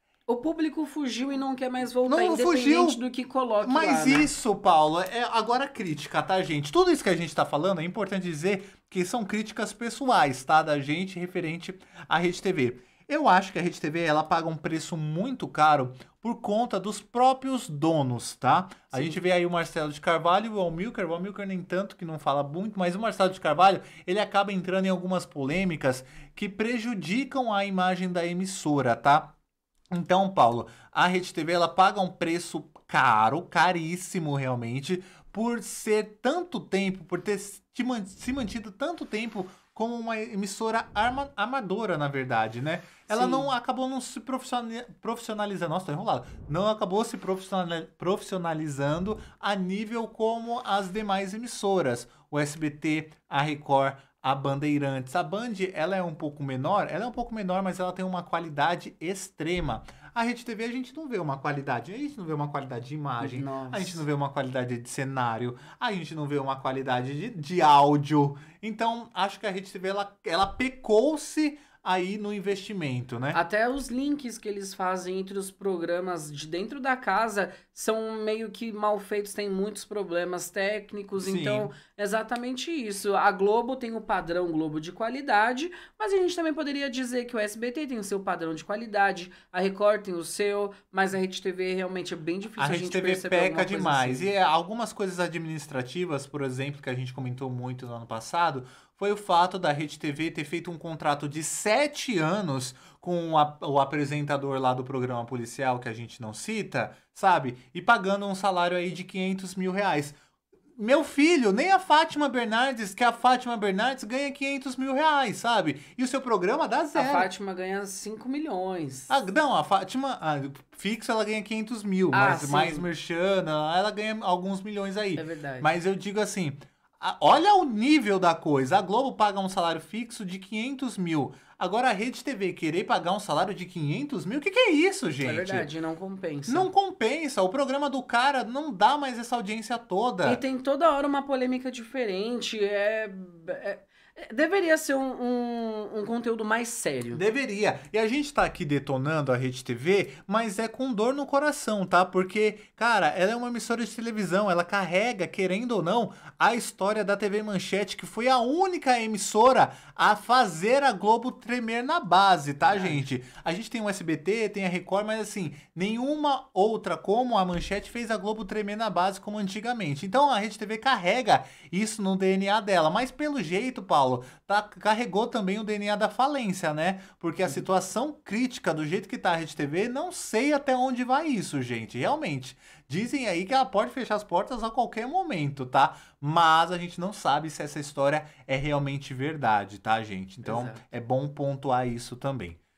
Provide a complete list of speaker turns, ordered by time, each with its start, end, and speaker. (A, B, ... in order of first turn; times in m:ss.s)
0:00.3-0:04.3 A
0:02.1-0:03.0 B
0:03.6-0:29.3 B
0:18.9-0:19.2 A
0:29.9-1:13.4 B
0:43.1-0:43.5 A
1:03.2-1:04.0 A
1:13.3-1:34.3 A
1:21.2-1:21.7 B
1:32.6-1:50.2 B
1:50.8-1:57.3 B
1:56.9-1:59.2 A
1:59.1-2:15.7 B
2:02.1-2:02.9 A
2:05.2-2:05.7 A
2:15.2-2:16.7 A
2:16.5-2:20.4 B
2:20.2-2:27.2 A
2:27.1-3:12.6 B
2:42.6-2:43.1 A
3:10.4-3:10.8 A